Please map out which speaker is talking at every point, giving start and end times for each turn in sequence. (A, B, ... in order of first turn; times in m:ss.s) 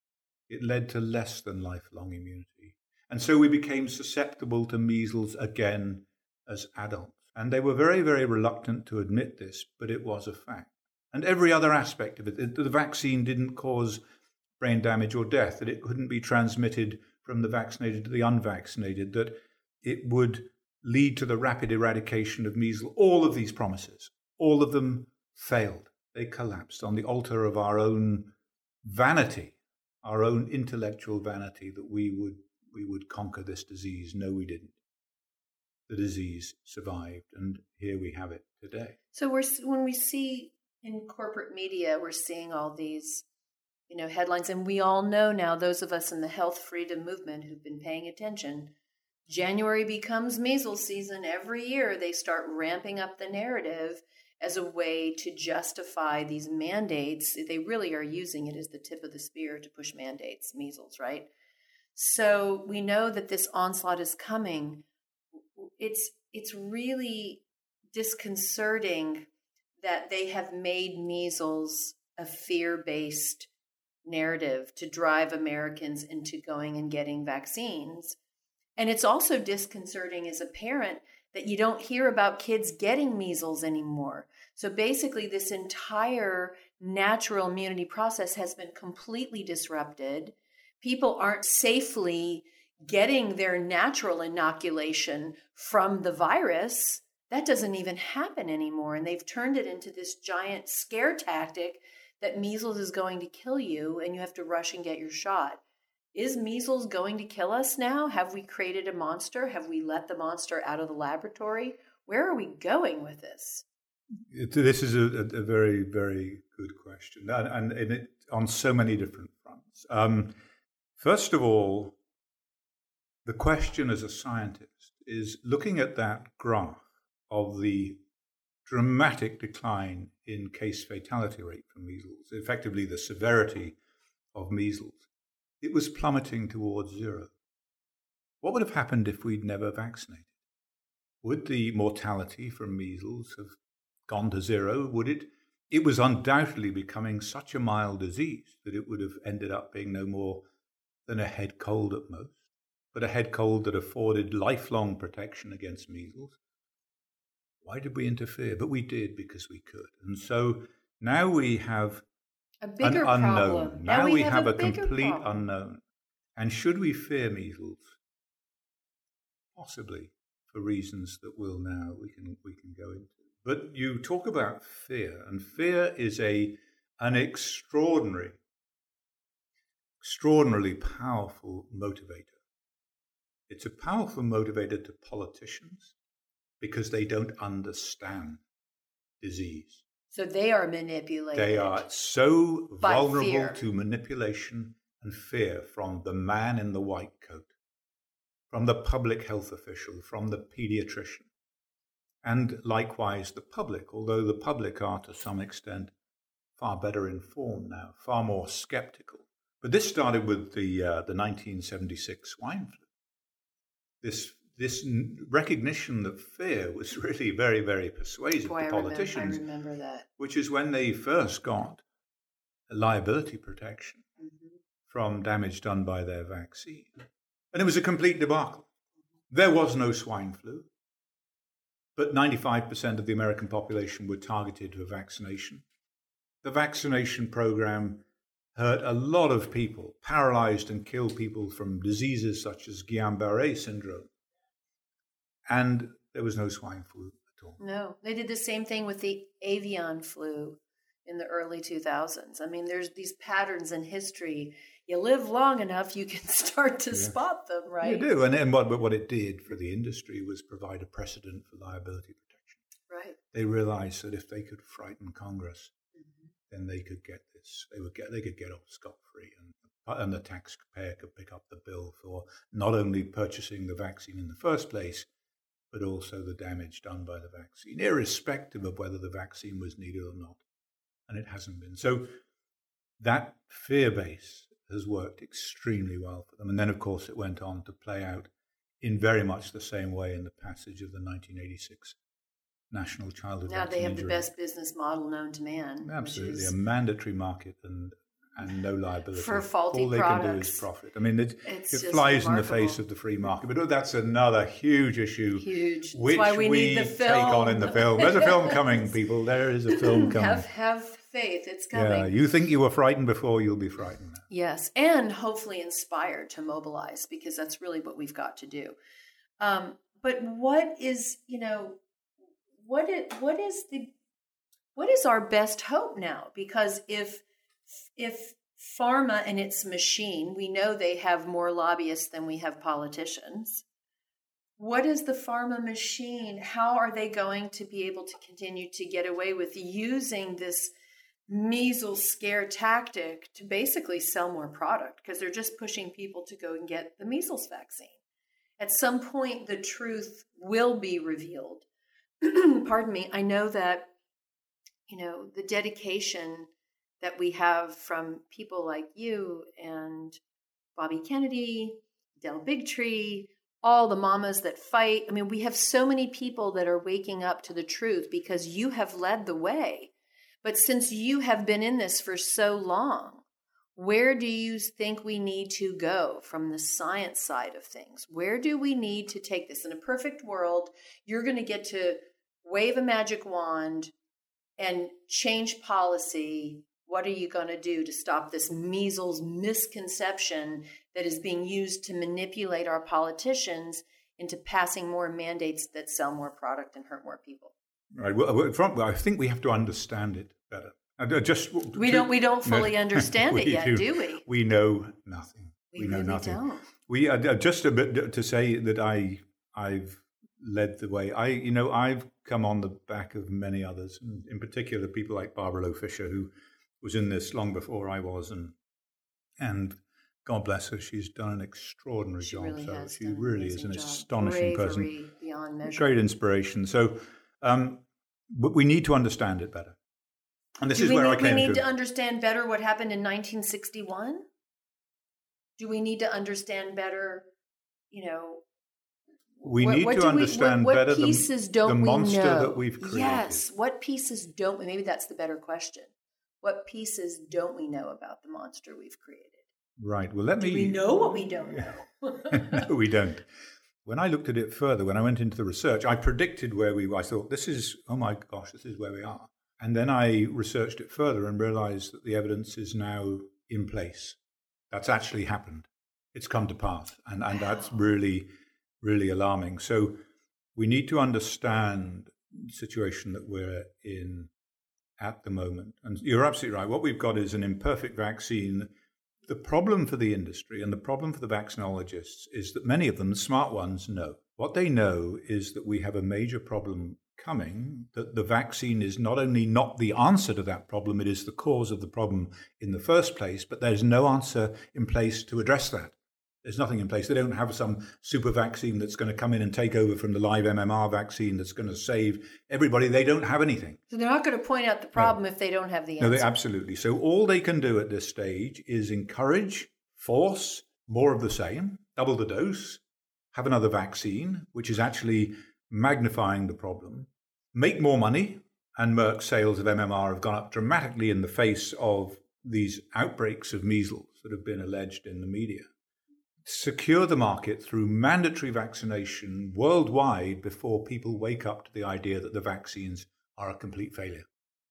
0:00.5-0:14.0 A
0:14.6-0:28.3 A
0:28.8-0:34.8 A
0:35.9-0:39.0 A
0:39.1-0:43.2 B
0:43.9-0:48.7 B
0:49.3-1:01.3 B
1:02.0-1:04.8 B
1:05.6-1:09.3 B
1:09.8-1:13.5 B
1:14.0-1:18.2 B
1:18.8-1:45.6 B
1:46.1-1:53.7 B
1:54.3-2:00.3 A
2:01.0-2:02.0 A
2:03.2-2:08.0 A
2:08.7-2:13.8 A
2:14.4-2:15.1 A
2:15.6-2:17.3 A
2:18.4-2:20.3 A
2:21.2-2:30.4 A
2:31.1-2:36.4 A
2:37.6-2:42.0 A
2:42.6-2:45.4 B
2:42.8-2:45.8 A
2:46.4-2:48.0 A
2:49.6-2:58.4 A
3:00.0-3:02.4 A
3:03.5-3:05.9 A
3:06.6-3:08.4 A
3:09.2-3:09.8 A
3:10.1-3:11.8 B
3:11.3-3:17.5 A
3:12.8-3:13.6 B
3:18.5-3:21.3 A
3:22.2-3:25.9 A
3:26.6-3:32.9 A
3:34.0-3:39.4 A
3:38.4-3:40.1 B
3:40.2-3:41.8 A
3:42.7-3:44.0 A
3:44.2-3:44.5 B
3:44.9-3:48.7 A
3:49.3-3:50.7 A
3:52.0-3:55.6 A
3:56.4-4:04.1 A
4:05.5-4:07.6 A
4:07.6-4:18.1 B
4:17.8-4:22.6 A
4:22.9-4:23.2 B
4:23.3-4:25.7 A
4:26.5-4:35.1 A
4:35.7-4:40.4 A
4:41.1-4:42.1 A
4:43.0-4:52.0 A
4:52.7-4:54.3 A
4:53.5-4:56.6 B
4:55.8-5:10.4 A
4:59.1-5:00.7 B
5:01.4-5:02.8 B
5:05.4-5:08.9 B
5:09.7-5:12.1 B
5:11.7-5:14.3 A
5:14.3-5:18.8 B
5:19.4-5:21.8 B
5:22.6-5:23.9 B
5:24.8-5:27.2 B
5:28.0-5:33.6 B
5:34.6-5:40.7 B
5:41.3-5:48.0 B
5:48.6-5:51.7 B
5:52.2-5:53.9 B
5:54.9-5:56.5 B
5:57.0-6:00.2 B
6:00.8-6:09.9 B
6:10.4-6:13.2 B
6:13.8-6:23.9 B
6:24.6-6:37.5 B
6:37.9-6:56.3 A
6:41.8-6:44.2 B
6:45.7-6:46.6 B
6:56.8-6:58.6 A
6:59.4-7:04.9 A
7:02.2-7:05.9 B
7:05.6-7:09.8 A
7:10.6-7:11.6 A
7:10.7-7:14.3 B
7:15.6-7:17.3 B
7:17.9-7:18.4 B
7:19.4-7:25.9 B
7:19.4-7:23.4 A
7:26.4-7:29.5 B
7:29.8-7:31.8 A
7:30.4-7:32.7 B
7:32.3-7:33.3 A
7:33.8-7:44.2 A
7:44.7-7:48.3 A
7:48.8-7:50.0 A
7:50.6-7:54.3 A
7:55.0-7:58.7 A
7:59.3-8:23.8 A
8:23.9-8:26.3 B
8:26.0-8:32.8 A
8:33.3-8:45.7 A
8:46.4-8:54.3 A